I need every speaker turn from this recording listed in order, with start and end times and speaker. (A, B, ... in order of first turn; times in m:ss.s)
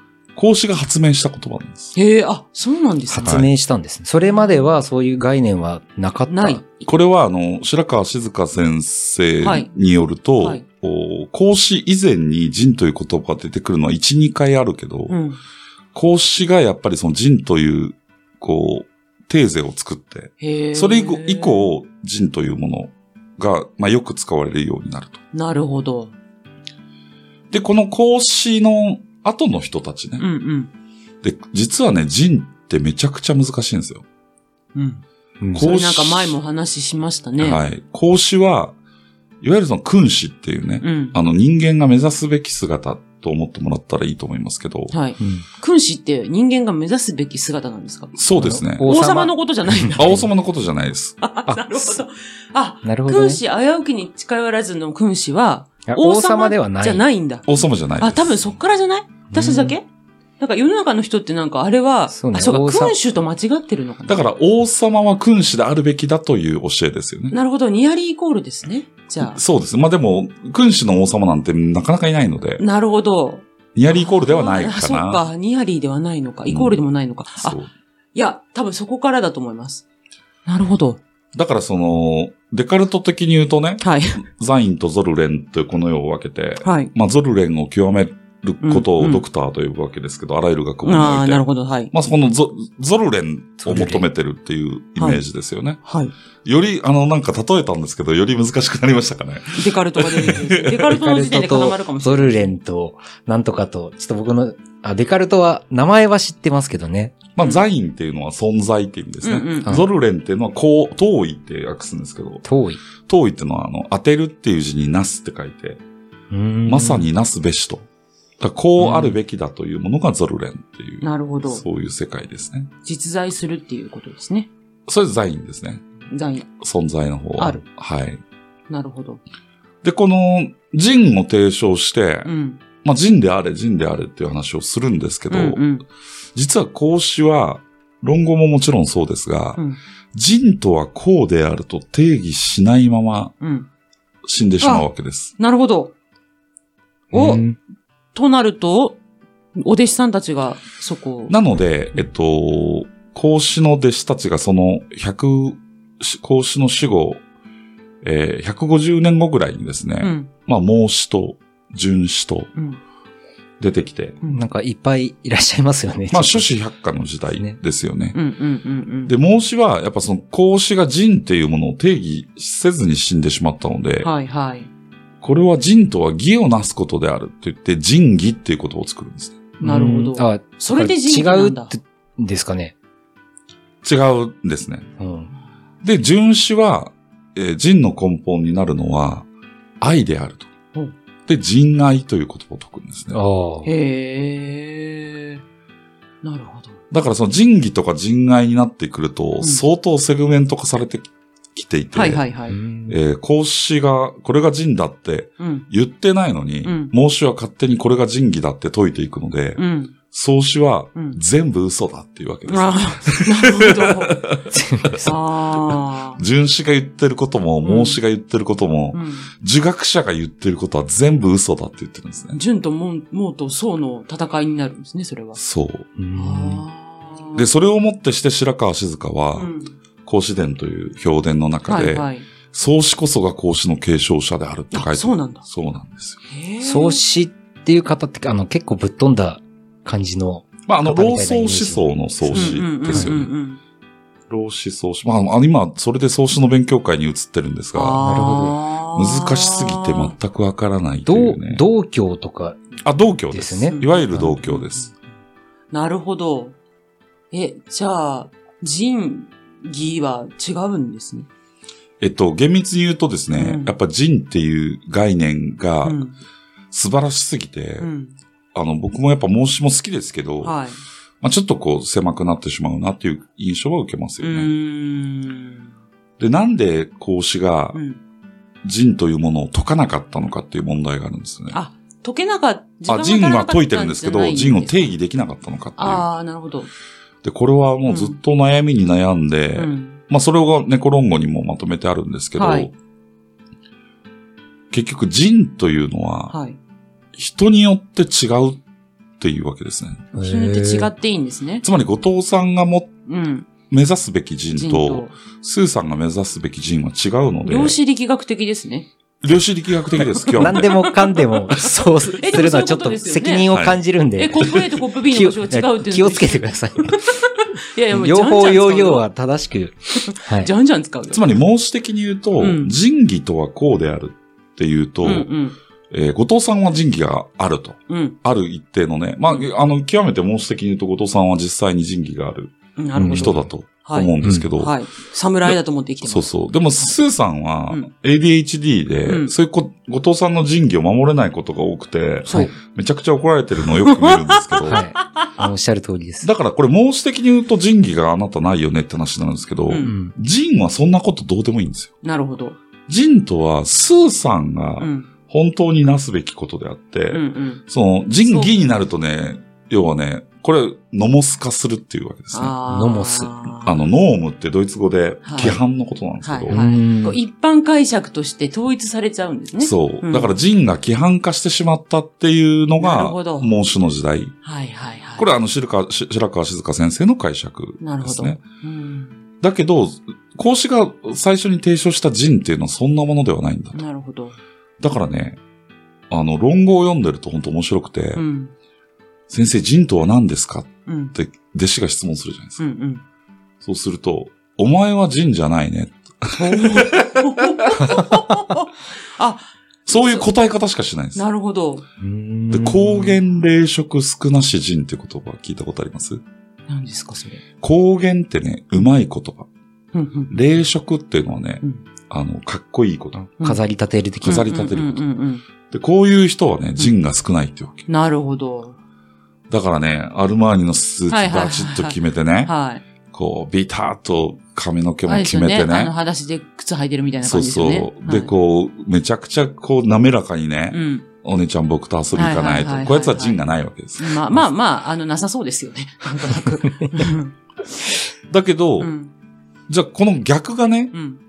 0:00.3-0:02.0 A
0:01.9-0:03.4 B
0:03.1-0:06.6 C
0:03.2-0:03.5 A
0:04.2-0:04.7 B
0:06.3-0:06.6 B
0:06.8-0:15.2 A
0:09.4-0:09.7 B
0:15.1-0:15.4 B
0:15.9-0:25.2 A
0:20.4-0:21.7 B
0:25.3-0:26.1 B
0:27.5-0:30.2 A
0:30.2-0:30.7 B
0:31.2-0:34.0 A
0:34.7-0:35.0 B
0:35.4-0:35.6 C
0:35.5-0:36.4 A
0:35.5-0:37.6 B
0:37.4-0:38.7 A
0:39.4-0:44.9 A
0:40.8-0:41.2 B
0:44.9-0:48.1 B
0:45.2-0:45.4 C
0:48.1-0:48.9 A
0:48.4-0:50.2 C
0:48.8-0:50.2 B
0:49.9-0:51.2 A
0:51.2-0:57.5 B
0:51.5-0:51.8 C
0:52.8-0:53.4 C
0:55.8-0:57.0 C
0:57.5-0:58.4 A
0:58.0-0:59.8 B
0:59.3-0:59.8 C
1:00.4-1:04.3 B
1:02.1-1:02.9 C
1:04.1-1:07.3 A
1:07.3-1:09.4 B
1:09.2-1:12.6 A
1:12.6-1:17.6 B
1:13.7-1:15.3 A
1:16.5-1:16.8 A
1:17.4-1:17.7 A
1:18.1-1:19.8 B
1:20.4-1:21.0 B
1:21.3-1:35.8 A
1:23.8-1:24.2 B
1:26.6-1:26.9 B
1:28.6-1:29.2 B
1:30.8-1:31.9 B
1:33.6-1:34.1 C
1:35.8-1:36.1 B
1:36.4-1:41.0 A
1:39.5-1:42.5 B
1:40.9-1:47.2 C
1:47.4-1:52.4 A
1:49.2-1:49.8 B
1:52.4-1:52.8 C
1:53.0-1:55.8 A
1:56.3-1:57.1 C
1:56.6-1:57.8 A
1:58.4-2:02.7 A
1:58.8-1:59.1 C
2:01.0-2:01.6 B
2:02.8-2:04.5 B
2:04.9-2:05.8 A
2:06.1-2:06.5 B
2:06.6-2:08.2 A
2:07.4-2:07.6 B
2:08.7-2:09.2 B
2:09.8-2:12.3 A
2:12.2-2:12.6 B
2:12.8-2:15.6 A
2:15.3-2:15.8 B
2:16.3-2:19.6 A
2:20.1-2:23.3 A
2:23.4-2:23.7 B
2:24.2-2:25.3 A
2:24.6-2:24.8 B
2:25.4-2:25.9 B
2:27.1-2:27.4 B
2:27.1-2:27.6 A
2:27.1-2:27.4 C
2:28.1-2:29.0 B
2:29.6-2:31.3 B
2:31.3-2:37.2 A
2:38.0-2:42.5 A
2:40.0-2:40.3 B
2:42.5-2:42.8 B
2:43.6-2:44.2 A
2:44.2-2:46.5 C
2:46.1-2:48.2 A
2:48.1-2:49.1 B
2:49.0-2:54.1 A
2:54.0-2:54.7 B
2:55.2-2:59.4 A
2:59.6-3:02.7 C
2:59.6-3:01.7 B
3:03.8-3:04.9 A
3:05.0-3:05.3 C
3:05.8-3:09.3 A
3:09.8-3:10.5 A
3:11.3-3:13.2 A
3:13.1-3:13.7 C
3:13.6-3:15.4 B
3:16.2-3:16.8 B
3:16.9-3:22.2 A
3:21.9-3:22.6 B
3:22.5-3:23.0 C
3:22.9-3:35.1 A
3:25.4-3:25.6 B
3:26.6-3:26.9 B
3:29.6-3:29.9 B
3:30.9-3:31.2 B
3:32.5-3:34.2 B
3:34.5-3:35.0 C
3:35.0-3:36.2 B
3:35.7-3:42.4 A
3:37.6-3:38.0 B
3:38.9-3:39.3 B
3:42.3-3:45.4 B
3:45.4-3:45.9 A
3:46.0-3:46.6 C
3:46.1-3:47.5 B
3:47.4-3:49.5 A
3:49.3-3:49.7 B
3:50.0-3:56.2 A
3:51.7-3:52.3 B
3:54.7-3:55.4 B
3:56.3-3:57.0 B
3:56.6-4:03.1 C
4:00.7-4:03.3 A
4:02.3-4:03.6 B
4:04.3-4:08.1 A
4:07.7-4:10.1 B
4:08.0-4:08.6 C
4:08.9-4:11.6 A
4:11.0-4:12.7 C
4:12.8-4:14.9 A
4:13.3-4:14.3 C
4:13.7-4:14.9 B
4:15.7-4:16.6 B
4:17.3-4:21.3 B
4:22.0-4:26.0 A
4:23.3-4:23.8 B
4:25.8-4:26.2 B
4:26.7-4:27.9 A
4:27.8-4:28.1 B
4:28.5-4:30.6 A
4:30.4-4:30.8 B
4:31.2-4:34.5 A
4:34.2-4:35.7 B
4:36.2-4:37.8 A
4:37.7-4:38.0 B
4:38.6-4:41.6 A
4:41.5-4:44.9 B
4:42.9-4:46.0 A
4:45.8-4:46.7 B
4:47.2-4:52.7 A
4:47.8-4:48.2 B
4:49.5-4:50.0 B
4:52.4-4:52.7 B
4:54.7-4:56.3 A
4:56.3-4:56.6 B
4:57.2-4:58.6 A
4:59.2-5:00.1 A
5:00.1-5:00.9 C
5:00.1-5:01.6 B
5:01.6-5:02.9 A
5:03.0-5:03.5 B
5:03.7-5:07.8 A
5:04.6-5:05.2 B
5:07.4-5:08.9 B
5:09.2-5:10.8 A
5:10.2-5:13.5 B
5:10.2-5:17.1 C
5:13.5-5:13.8 A
5:14.2-5:19.0 B
5:17.9-5:20.5 C
5:20.0-5:21.3 B
5:21.1-5:25.3 A
5:22.4-5:22.7 B
5:25.0-5:25.6 B
5:25.9-5:34.8 A
5:27.9-5:28.2 B
5:32.8-5:36.9 B
5:33.0-5:33.4 C
5:34.2-5:34.5 C
5:36.0-5:44.8 A
5:39.0-5:39.3 B
5:43.8-5:45.3 B
5:44.6-5:46.3 C
5:46.2-5:51.9 A
5:49.7-5:49.9 B
5:49.8-5:50.1 C
5:52.0-5:52.6 B
5:52.9-6:02.5 A
5:54.8-5:55.1 B
5:57.1-5:57.6 B
5:58.2-5:58.5 B
6:02.3-6:03.8 B
6:02.7-6:03.3 C
6:03.6-6:06.6 A
6:05.2-6:05.6 B
6:06.2-6:10.3 B
6:06.5-6:07.2 C
6:09.6-6:14.3 A
6:12.8-6:13.5 B
6:14.4-6:15.3 B
6:15.2-6:18.4 A
6:17.8-6:19.2 B
6:19.4-6:23.8 A
6:23.7-6:24.4 B
6:24.8-6:25.4 A
6:26.1-6:28.2 A
6:28.1-6:28.5 B
6:29.3-6:32.6 A
6:30.8-6:31.1 B
6:32.6-6:33.0 B
6:33.6-6:38.0 A
6:36.3-6:40.3 B
6:39.9-6:41.2 A
6:41.1-6:41.8 B
6:42.0-6:43.2 C
6:42.5-6:46.2 A
6:46.7-6:47.4 B
6:47.6-6:49.5 A
6:49.9-6:50.3 B
6:50.3-6:53.2 A
6:53.2-6:54.5 C
6:54.2-6:55.0 A
6:54.2-6:55.4 B
6:55.7-6:57.9 A
6:57.9-6:58.8 B
6:59.5-7:02.5 A
7:01.1-7:02.8 B
7:03.1-7:05.9 A
7:05.0-7:08.3 B
7:07.2-7:14.2 A
7:10.7-7:11.1 B
7:12.1-7:13.4 B
7:14.0-7:17.3 B
7:18.3-7:18.9 A
7:18.8-7:19.1 B
7:19.7-7:20.9 A
7:20.9-7:21.2 B